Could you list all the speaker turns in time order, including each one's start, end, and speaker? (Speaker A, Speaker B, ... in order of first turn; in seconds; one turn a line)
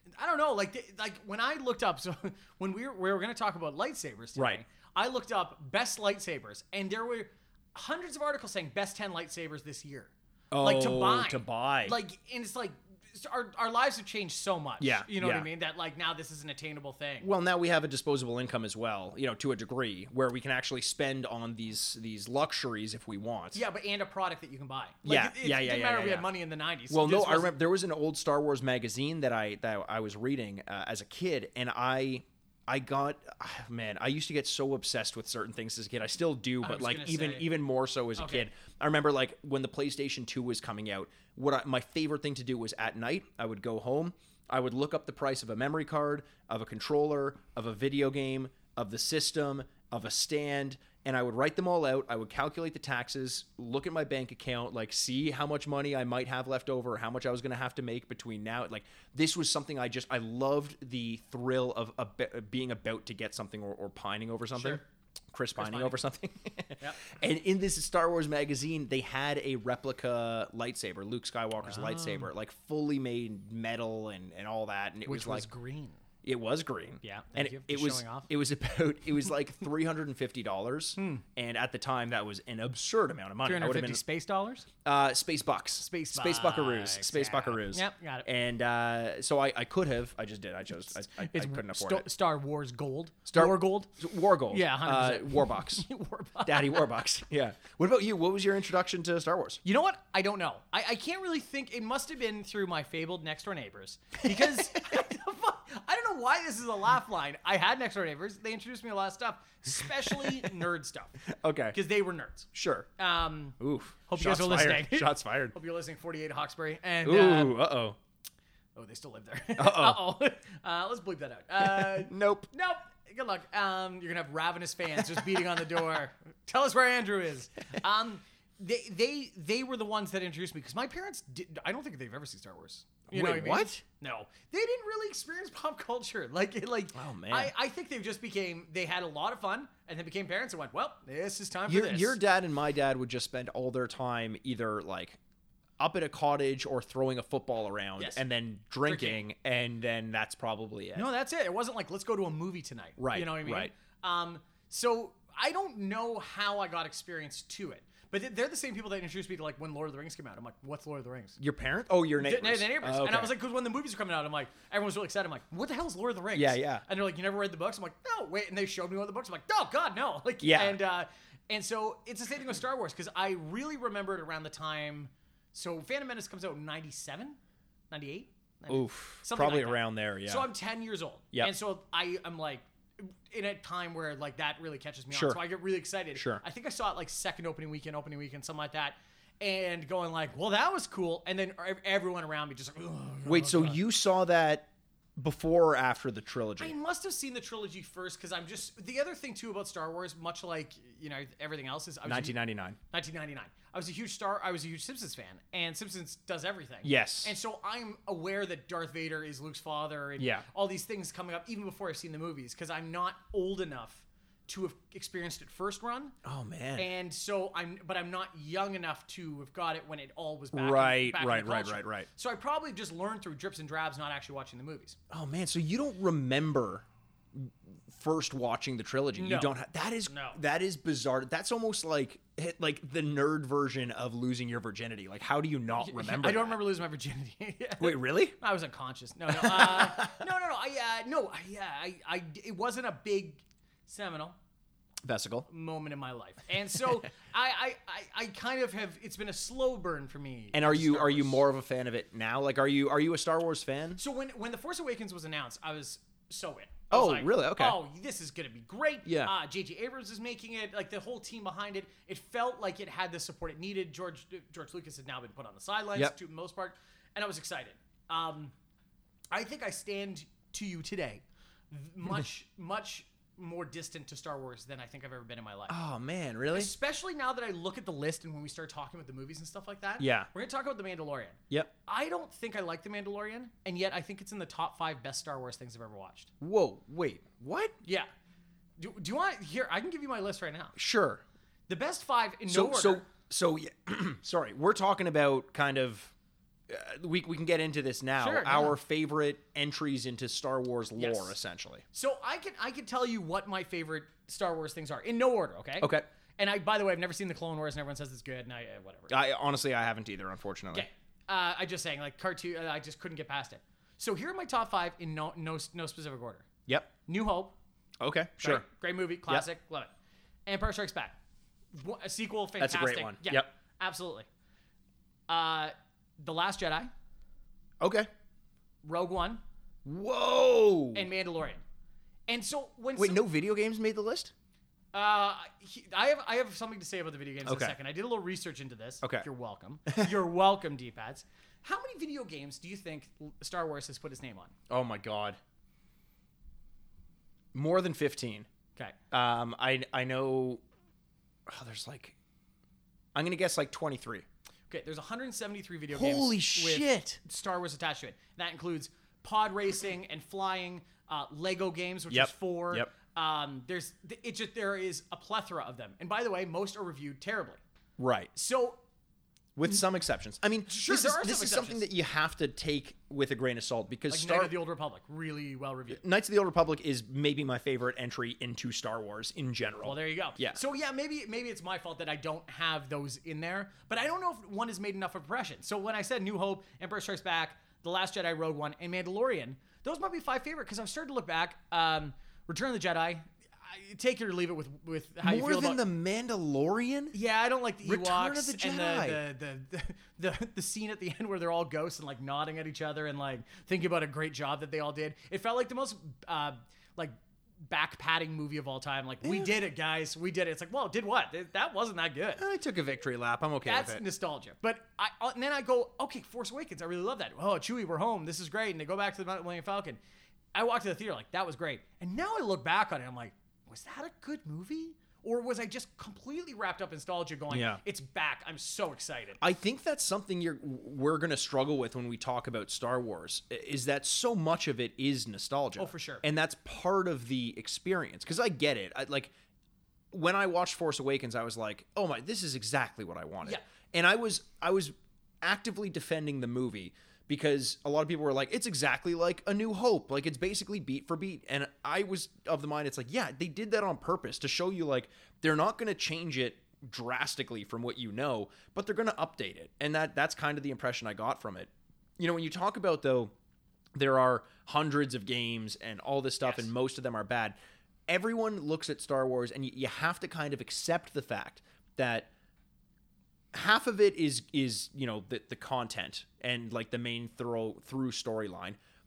Speaker A: 0.2-17.3
Speaker B: 4.4-4.6
Speaker B: 10.5-12.0
Speaker B: 14.8-15.5
Speaker B: 17.2-23.6
Speaker A: 23.5-27.6
Speaker B: 25.0-26.3
Speaker B: 26.9-64.8
Speaker A: 36.6-37.5
Speaker A: 38.2-38.5
Speaker A: 64.5-64.8
Speaker B: 65.3-75.5
Speaker A: 65.6-66.0
Speaker A: 71.6-72.3
Speaker A: 75.1-76.0
Speaker B: 76.2-84.0
Speaker A: 77.0-78.3
Speaker A: 81.0-81.2
Speaker A: 83.4-84.7
Speaker B: 84.8-92.1
Speaker A: 85.8-88.3
Speaker A: 91.2-94.0
Speaker B: 93.3-95.9
Speaker A: 94.5-96.9
Speaker B: 96.5-99.6
Speaker A: 99.6-111.2
Speaker B: 104.3-104.7
Speaker B: 110.1-110.5
Speaker B: 111.3-111.8
Speaker A: 111.7-117.6
Speaker B: 112.5-112.9
Speaker B: 113.6-115.5
Speaker B: 117.0-118.0
Speaker A: 118.8-142.2
Speaker B: 119.6-120.0
Speaker B: 121.6-122.5
Speaker B: 133.1-133.8
Speaker B: 136.9-137.5
Speaker B: 141.7-145.2
Speaker B: 145.8-151.1
Speaker A: 148.8-149.2
Speaker A: 150.9-161.4
Speaker B: 153.0-153.7
Speaker B: 161.4-163.3
Speaker A: 162.2-177.4
Speaker B: 166.3-166.8
Speaker B: 170.4-170.8
Speaker A: 177.9-193.8
Speaker B: 178.7-180.5
Speaker B: 185.1-185.4
Speaker B: 186.2-186.4
Speaker B: 193.2-196.8
Speaker A: 196.6-202.4
Speaker B: 202.1-202.8
Speaker A: 202.9-216.1
Speaker B: 206.8-207.3
Speaker B: 210.2-210.4
Speaker B: 216.2-216.9
Speaker A: 216.8-225.0
Speaker B: 220.5-222.1
Speaker B: 225.1-236.6
Speaker A: 229.2-229.5
Speaker A: 230.1-230.4
Speaker A: 235.8-244.4
Speaker B: 237.8-238.4
Speaker B: 239.3-240.2
Speaker B: 245.0-245.5
Speaker A: 245.5-251.4
Speaker B: 250.5-254.0
Speaker A: 254.0-268.5
Speaker B: 256.9-257.8
Speaker B: 259.1-259.3
Speaker A: 269.3-275.8
Speaker B: 275.7-276.7
Speaker A: 276.5-286.3
Speaker B: 280.0-280.3
Speaker B: 286.4-287.8
Speaker A: 288.8-290.8
Speaker B: 290.8-291.2
Speaker A: 291.7-293.0
Speaker B: 292.5-296.1
Speaker B: 296.7-301.8
Speaker A: 298.2-298.8
Speaker A: 301.0-301.4
Speaker A: 301.9-309.1
Speaker B: 305.8-306.1
Speaker B: 309.1-310.9
Speaker A: 310.7-316.5
Speaker A: 317.1-317.6
Speaker B: 318.0-318.6
Speaker A: 318.4-319.9
Speaker A: 320.5-321.2
Speaker A: 321.7-324.3
Speaker B: 322.6-323.5
Speaker A: 325.3-326.9
Speaker B: 327.8-328.1
Speaker A: 328.8-329.4
Speaker B: 329.9-331.1
Speaker A: 330.9-331.6
Speaker A: 332.3-333.2
Speaker B: 333.0-334.3
Speaker A: 334.9-344.5
Speaker B: 337.5-337.8
Speaker B: 344.7-345.4
Speaker B: 347.5-348.5
Speaker B: 349.1-350.6
Speaker B: 351.5-352.1
Speaker B: 353.1-354.2
Speaker A: 354.7-367.6
Speaker B: 355.9-357.2
Speaker B: 362.1-362.9
Speaker B: 368.0-368.3
Speaker A: 368.3-368.8
Speaker B: 369.6-374.6
Speaker A: 370.7-371.9
Speaker A: 374.1-376.0
Speaker B: 375.9-380.6
Speaker A: 379.8-395.8
Speaker B: 395.2-397.1
Speaker A: 397.1-412.4
Speaker B: 397.8-399.2
Speaker B: 409.2-409.5
Speaker B: 412.4-414.0
Speaker A: 413.6-420.0
Speaker A: 420.5-429.4
Speaker B: 427.5-427.8
Speaker B: 429.4-439.3
Speaker A: 435.8-436.2
Speaker B: 440.1-463.3
Speaker B: 463.9-467.6
Speaker A: 466.4-466.7
Speaker B: 468.1-472.3
Speaker B: 473.5-478.8